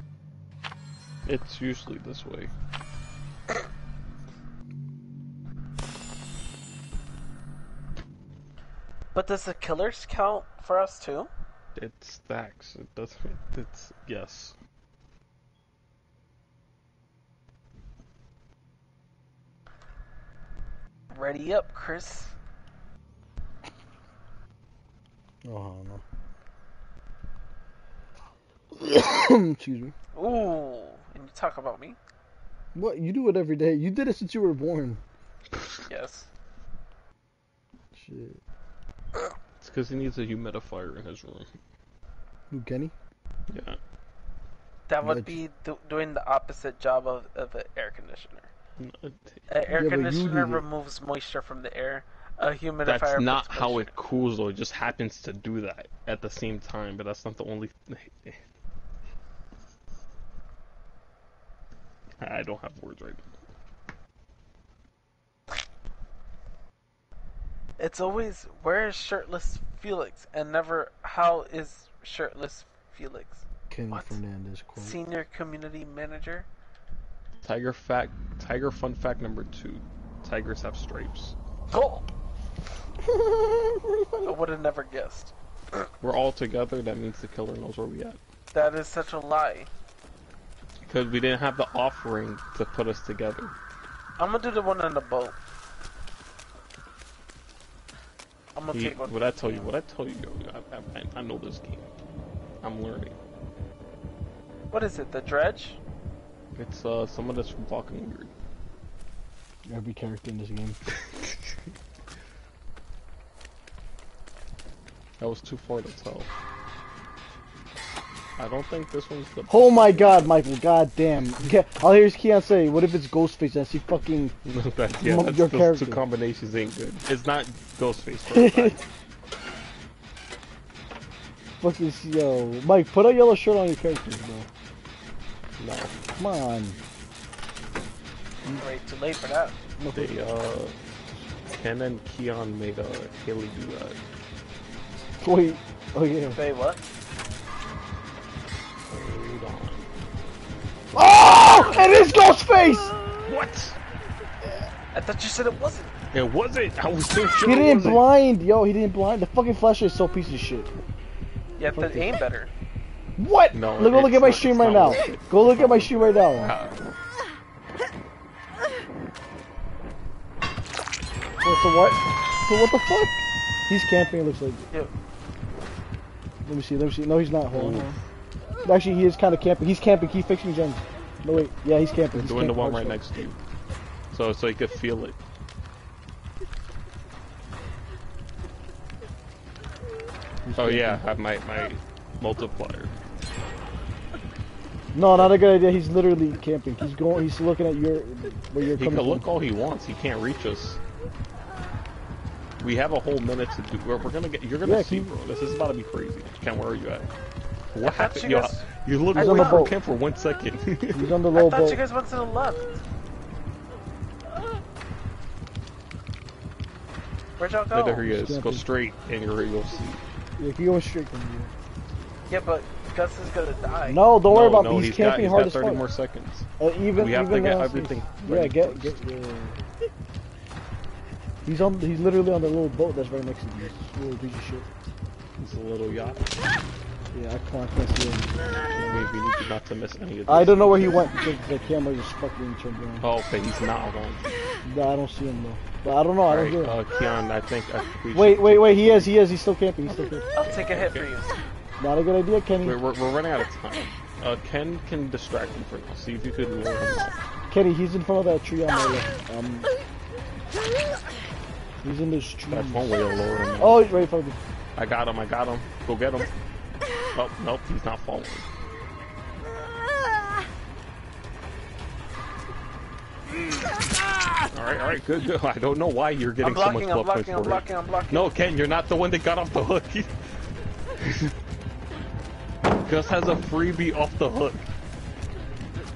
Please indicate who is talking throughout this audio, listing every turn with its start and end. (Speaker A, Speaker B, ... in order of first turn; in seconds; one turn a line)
Speaker A: 1.2-2.5
Speaker B: 9.1-11.3
Speaker A: 11.8-14.5
Speaker B: 21.1-22.3
Speaker C: 25.4-26.0
Speaker C: 28.7-29.9
Speaker B: 30.1-32.0
Speaker C: 32.7-35.0
Speaker B: 35.9-36.3
Speaker C: 37.9-38.4
Speaker A: 39.6-41.5
Speaker C: 42.5-42.9
Speaker A: 43.5-43.8
Speaker B: 44.9-48.5
Speaker C: 45.0-45.4
Speaker A: 48.8-49.4
Speaker B: 49.5-53.9
Speaker C: 49.7-50.6
Speaker A: 52.9-58.4
Speaker A: 62.2-63.3
Speaker B: 67.8-74.2
Speaker C: 73.7-75.0
Speaker B: 74.8-76.5
Speaker A: 77.4-81.3
Speaker B: 81.7-82.1
Speaker C: 83.3-84.3
Speaker B: 84.2-85.3
Speaker A: 86.0-88.2
Speaker B: 88.5-89.7
Speaker A: 90.8-93.5
Speaker B: 94.2-95.3
Speaker B: 98.5-99.7
Speaker A: 98.7-101.9
Speaker A: 102.6-103.2
Speaker B: 104.7-105.8
Speaker A: 106.5-108.3
Speaker C: 109.7-110.8
Speaker A: 115.2-116.3
Speaker A: 118.4-120.3
Speaker C: 119.5-124.3
Speaker A: 124.5-128.8
Speaker C: 125.0-126.0
Speaker C: 128.3-128.8
Speaker C: 131.6-134.5
Speaker A: 135.6-135.9
Speaker C: 136.2-136.8
Speaker B: 138.5-139.5
Speaker C: 139.8-140.3
Speaker A: 139.9-140.8
Speaker A: 141.4-144.0
Speaker C: 145.2-146.4
Speaker B: 146.3-146.8
Speaker A: 148.9-149.9
Speaker C: 150.9-152.9
Speaker B: 151.5-151.8
Speaker A: 153.2-153.8
Speaker B: 154.9-155.9
Speaker A: 156.1-158.1
Speaker C: 157.4-160.7
Speaker B: 161.6-162.5
Speaker C: 161.7-162.1
Speaker C: 163.2-166.5
Speaker A: 163.5-166.8
Speaker C: 171.4-174.6
Speaker C: 176.4-178.0
Speaker A: 177.5-177.9
Speaker C: 178.6-183.0
Speaker A: 182.1-183.4
Speaker A: 184.1-185.2
Speaker C: 190.4-191.0
Speaker A: 190.5-192.9
Speaker C: 194.9-199.3
Speaker A: 198.8-200.8
Speaker A: 202.6-207.1
Speaker C: 204.6-205.1
Speaker A: 207.7-211.2
Speaker B: 207.8-209.7
Speaker C: 209.1-209.8
Speaker C: 210.9-211.8
Speaker B: 211.3-212.8
Speaker B: 217.4-218.1
Speaker A: 217.7-220.1
Speaker C: 218.1-218.7
Speaker C: 220.4-221.5
Speaker B: 222.3-224.1
Speaker C: 223.8-225.8
Speaker A: 224.3-229.0
Speaker C: 226.6-229.6
Speaker C: 231.4-234.7
Speaker A: 235.4-236.3
Speaker C: 237.1-239.1
Speaker A: 238.7-241.1
Speaker C: 240.3-243.1
Speaker A: 243.0-244.3
Speaker C: 244.6-246.8
Speaker A: 246.3-249.1
Speaker C: 248.1-250.3
Speaker B: 250.3-251.4
Speaker A: 250.4-251.1
Speaker C: 251.8-252.8
Speaker A: 252.6-257.1
Speaker C: 257.5-259.7
Speaker C: 261.8-262.9
Speaker A: 262.5-264.1
Speaker C: 263.6-264.4
Speaker A: 264.8-266.3
Speaker A: 267.1-268.4
Speaker A: 274.5-280.1
Speaker B: 276.4-278.3
Speaker A: 282.8-284.7